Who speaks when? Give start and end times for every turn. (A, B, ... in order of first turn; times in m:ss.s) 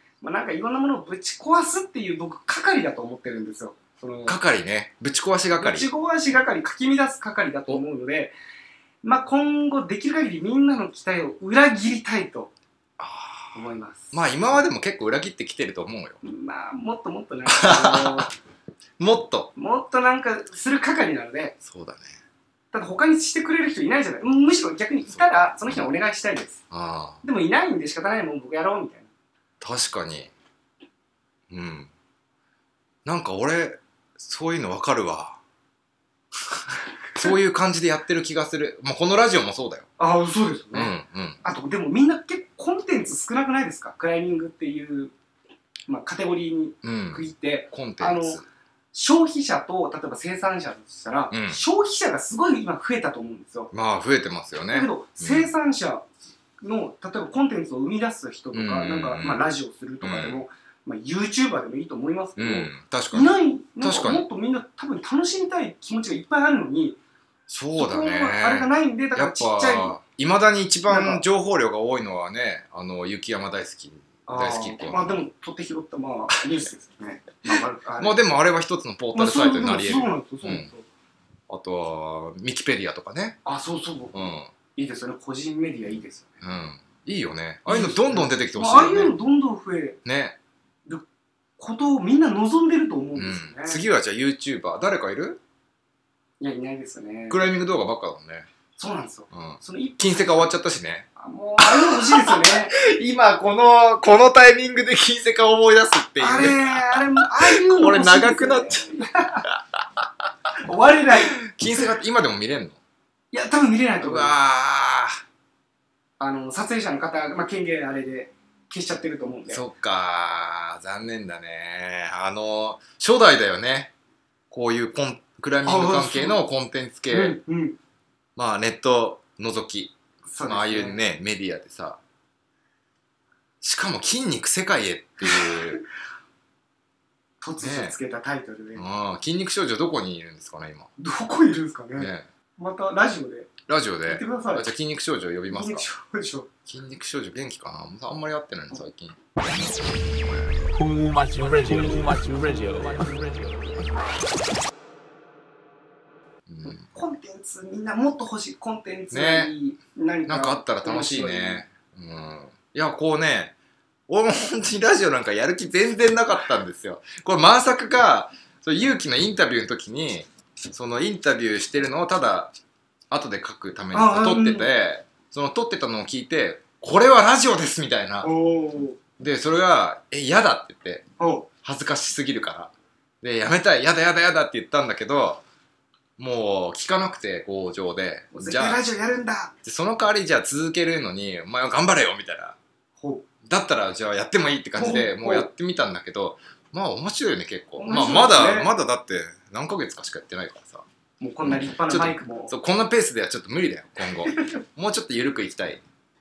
0:00.2-0:04.4 A
0:04.2-0:05.9 B
0:05.6-0:08.3 A
0:09.0-0:12.5 A
0:13.0-0:16.2 B
0:13.5-0:14.2 A
0:16.2-0:18.3 A
0:17.4-0:18.3 B
0:19.0-0:19.5 B
0:19.5-0:21.5 A
0:21.6-0:22.2 B
0:22.7-0:26.6 A
0:25.1-0:25.9 B
0:26.7-0:27.2 B
0:27.2-0:29.1 A
0:29.6-0:30.3 B
0:31.5-0:31.9 B
0:33.0-0:35.4 B
0:37.1-0:39.9 B
0:40.0-0:40.9 A
0:40.7-0:41.4 B
0:41.4-0:45.1 A
0:45.9-0:53.7 A
0:46.8-0:48.4 B
0:51.3-0:51.6 B
0:53.7-0:55.5 B
0:54.7-0:56.0 A
0:56.6-1:07.0 A
0:58.5-0:59.5 B
1:00.0-1:00.4 B
1:02.4-1:04.2 B
1:07.5-1:15.2 B
1:07.8-1:09.9 A
1:10.9-1:11.2 A
1:14.3-1:18.2 A
1:18.0-1:20.7 B
1:19.1-1:20.8 A
1:21.5-1:23.4 B
1:23.4-1:24.2 A
1:24.1-1:24.5 B
1:24.7-1:26.4 A
1:26.4-1:29.2 B
1:27.7-1:30.0 A
1:30.0-1:30.4 B
1:31.6-1:33.8 A
1:33.2-1:35.4 B
1:36.4-1:37.4 A
1:37.3-1:38.5 B
1:38.8-1:40.4 A
1:39.3-1:41.1 B
1:41.2-1:42.7 A
1:41.6-1:48.8 B
1:46.2-1:49.5 A
1:50.6-1:51.5 A
1:51.4-1:52.8 B
1:53.3-1:54.3 A
1:54.0-1:55.2 B
1:56.2-1:59.6 A
1:59.5-2:03.9 B
2:04.5-2:07.4 B
2:05.6-2:06.4 A
2:07.1-2:07.8 A
2:08.4-2:12.0 B
2:10.3-2:11.0 A
2:13.6-2:15.8 B
2:15.3-2:15.8 A
2:17.4-2:18.8 A
2:17.6-2:18.0 B
2:18.7-2:20.9 B
2:21.0-2:23.5 A
2:22.0-2:22.3 B
2:23.7-2:25.8 B
2:24.1-2:24.7 A
2:25.5-2:26.5 A
2:26.6-2:29.2 B
2:30.7-2:33.8 C
2:36.5-2:37.0 B
2:36.9-2:41.6 A
2:39.1-2:39.5 B
2:40.2-2:43.5 B
2:44.1-2:52.5 B
2:53.1-2:58.3 B
2:53.9-2:54.7 A
2:58.2-2:59.0 A
2:59.2-3:01.0 B
3:01.2-3:01.5 A
3:01.6-3:05.4 B
3:06.2-3:08.8 B
3:08.3-3:09.5 A
3:09.6-3:12.6 B
3:13.0-3:13.2 A
3:13.4-3:20.8 B
3:14.8-3:15.5 A
3:17.8-3:18.7 A
3:21.2-3:22.5 A
3:21.4-3:25.8 B